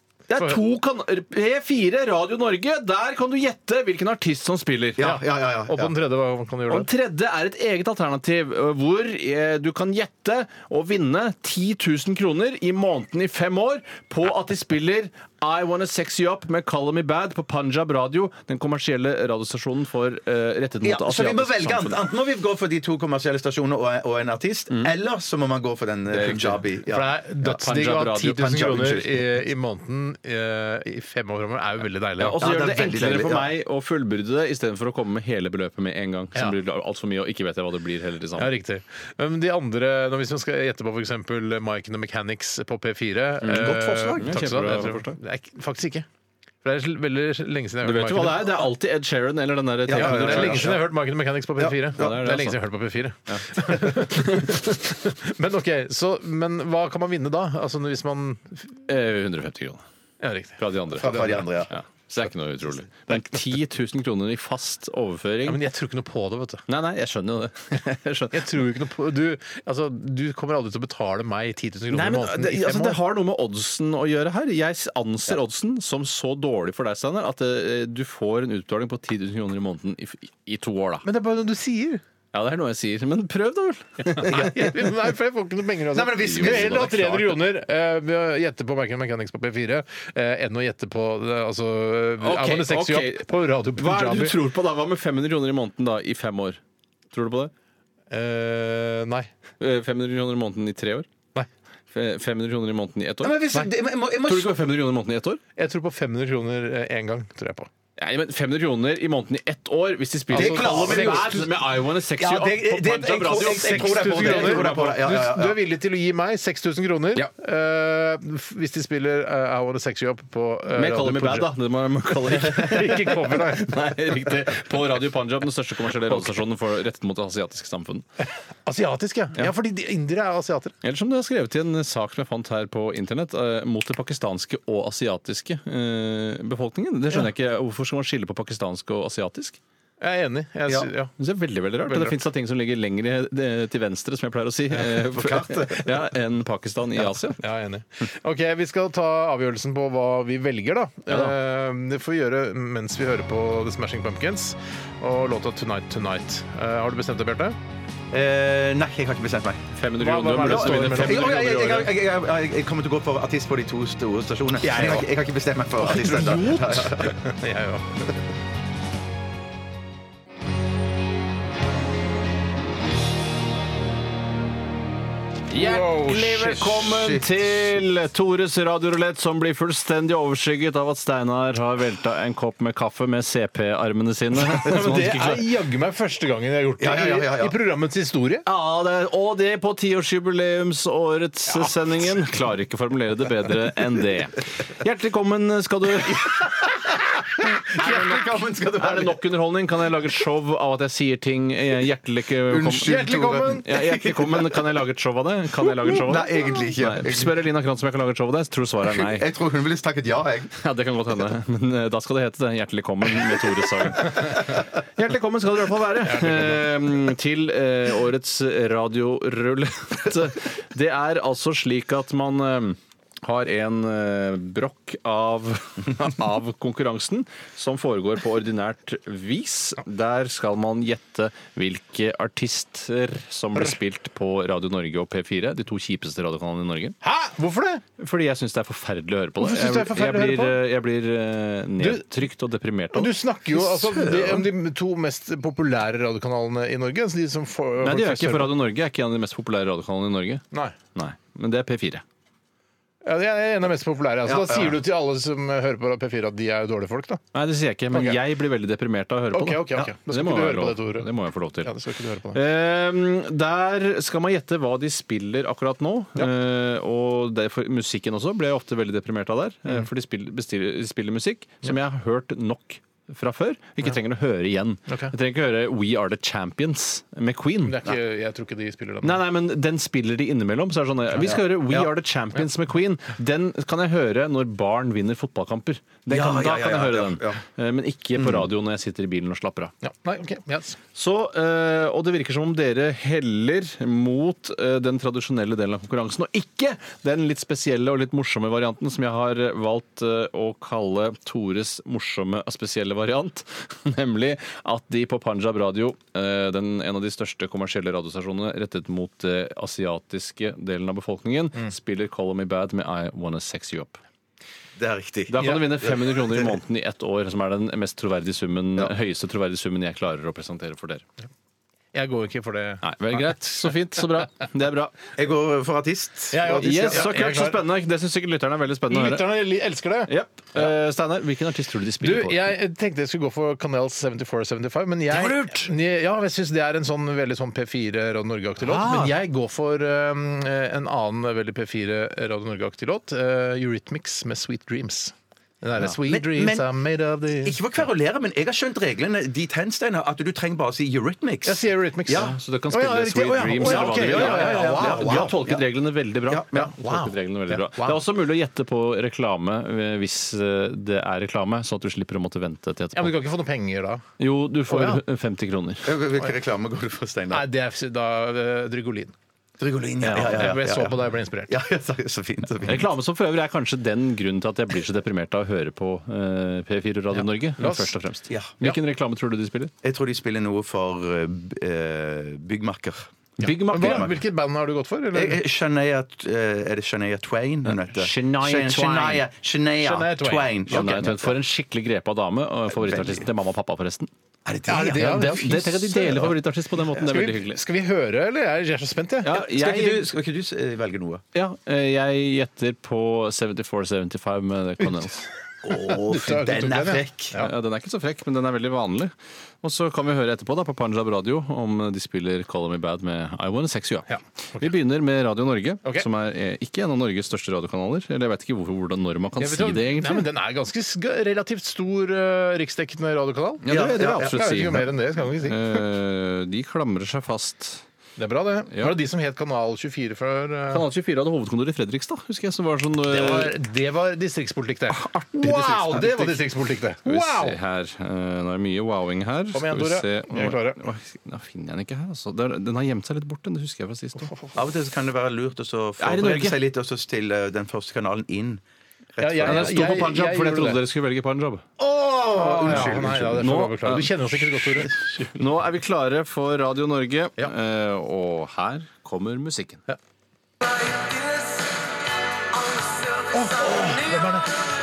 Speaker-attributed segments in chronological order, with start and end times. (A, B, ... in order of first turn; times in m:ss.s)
0:00.3-0:05.0 A
0:05.0-0:05.9 B
0:05.0-0:06.9 C
0:06.7-0:22.0 A
0:20.8-0:27.6 B
0:26.1-0:26.6 A
0:26.9-0:32.4 C
0:27.4-0:28.5 A
0:28.4-0:29.2 B
0:32.2-0:38.5 A
0:32.2-0:33.5 B
0:38.3-0:46.1 C
0:43.4-0:45.2 A
0:43.5-0:44.4 B
0:46.6-0:48.7 C
0:47.8-0:50.7 A
0:49.8-0:50.9 B
0:49.9-0:58.8 C
0:51.6-0:52.2 B
0:51.9-0:52.6 A
0:54.0-0:54.4 A
0:58.9-0:59.8 A
1:00.2-1:01.5 C
1:00.6-1:05.6 A
1:01.0-1:01.7 B
1:05.4-1:06.6 C
1:06.7-1:08.6 A
1:08.3-1:13.0 C
1:11.9-1:21.0 A
1:21.0-1:22.0 C
1:22.3-1:24.5 A
1:24.2-1:34.4 C
1:24.2-1:24.9 B
1:25.9-1:27.0 B
1:26.2-1:27.4 A
1:32.2-1:36.6 A
1:37.1-1:37.5 A
1:38.1-1:39.3 C
1:39.6-1:41.1 A
1:41.9-1:43.7 A
1:43.2-1:44.6 B
1:44.2-1:45.4 A
1:45.6-1:47.7 C
1:48.0-1:55.0 A
1:50.3-1:51.5 C
1:50.3-1:51.5 B
1:52.2-1:55.6 B
1:53.3-2:01.5 C
2:00.7-2:08.0 A
2:02.3-2:03.7 C
2:08.6-2:10.8 C
2:10.8-2:19.6 A
2:20.0-2:21.1 C
2:21.2-2:27.4 A
2:21.8-2:22.2 C
2:24.8-2:26.0 B
2:27.4-2:37.6 C
2:31.1-2:31.3 A
2:38.1-2:39.7 B
2:39.8-2:42.0 A
2:40.0-2:41.3 C
2:40.4-2:47.1 B
2:44.6-2:45.0 A
2:45.8-2:46.9 A
2:46.9-2:48.0 C
2:55.5-3:05.4 A
2:55.5-2:56.9 C
2:56.9-2:57.4 B
3:04.4-3:08.4 C
3:06.8-3:07.6 B
3:08.4-3:16.8 A
3:17.5-3:19.2 B
3:17.8-3:29.2 A
3:22.5-3:24.6 B
3:22.8-3:23.7 C
3:25.7-3:27.4 B
3:28.8-3:30.5 B
3:30.6-3:57.0 A
3:36.1-3:36.7 C
3:57.0-3:57.8 C
3:58.0-4:04.5 A
3:59.4-4:00.6 C
4:01.8-4:02.1 C
4:02.9-4:08.6 C
4:07.8-4:10.4 A
4:10.9-4:12.0 A
4:13.0-4:17.2 C
4:14.2-4:14.8 B
4:17.3-4:21.7 A
4:17.9-4:18.2 C
4:19.3-4:22.4 C
4:22.3-4:37.9 A
4:34.9-4:35.1 C
4:37.6-4:39.2 C
4:39.0-4:49.7 A
4:41.2-4:41.9 B
4:46.1-4:47.4 B
4:49.8-4:50.8 C
4:51.0-5:14.0 A
5:14.8-5:16.5 B
5:15.3-5:21.0 A
5:21.9-5:23.3 C
5:22.8-5:25.0 A
5:25.2-5:27.1 B
5:26.3-5:27.6 C
5:26.6-5:29.4 A
5:28.9-5:30.7 C
5:30.0-5:32.5 A
5:32.0-5:47.6 C
5:35.1-5:35.6 A
5:38.6-5:39.2 A
5:45.8-5:46.7 B
5:47.4-5:52.4 B
5:51.4-5:55.4 C
5:52.1-6:03.2 A
5:53.6-5:55.6 B
5:56.3-5:56.5 B
5:56.5-5:58.0 C
6:03.0-6:04.0 C
6:04.2-6:05.9 A
6:04.6-6:05.0 C
6:05.8-6:07.5 B
6:07.3-6:09.1 C
6:09.6-6:12.9 B
6:10.0-6:10.6 A
6:10.1-6:11.5 C
6:12.6-6:19.7 A
6:17.1-6:17.9 C
6:18.3-6:18.7 B
6:19.8-6:24.2 B
6:23.4-6:24.1 A
6:23.4-6:25.4 C
6:25.1-6:31.4 B
6:27.7-6:29.2 A
6:29.8-6:31.0 C
6:30.7-6:34.1 A
6:32.7-6:33.3 B
6:34.4-6:36.3 B
6:34.7-6:36.2 C
6:35.0-6:37.6 A
6:37.0-6:39.4 C
6:39.2-6:40.1 A
6:39.3-6:41.2 B
6:41.4-6:45.2 A
6:45.6-6:47.4 B
6:45.7-6:47.5 C
6:47.4-6:49.1 A
6:49.6-7:00.3 A
6:54.1-6:54.7 C
6:59.4-7:03.7 C
7:03.6-7:07.8 A
7:03.6-7:04.8 B
7:04.2-7:05.8 C
7:08.2-7:10.8 C
7:08.7-7:09.0 A
7:10.7-7:13.5 A
7:13.1-7:17.6 C
7:14.9-7:16.4 A
7:17.0-7:24.3 A
7:19.5-7:20.8 C
7:24.2-7:24.6 C
7:24.5-7:28.6 B
7:26.0-7:26.6 A
7:29.2-7:29.9 B
7:29.2-7:30.8 C
7:29.4-7:31.6 A
7:31.8-7:34.9 C
7:32.2-7:33.4 B
7:32.6-7:39.8 A
7:43.3-7:44.5 C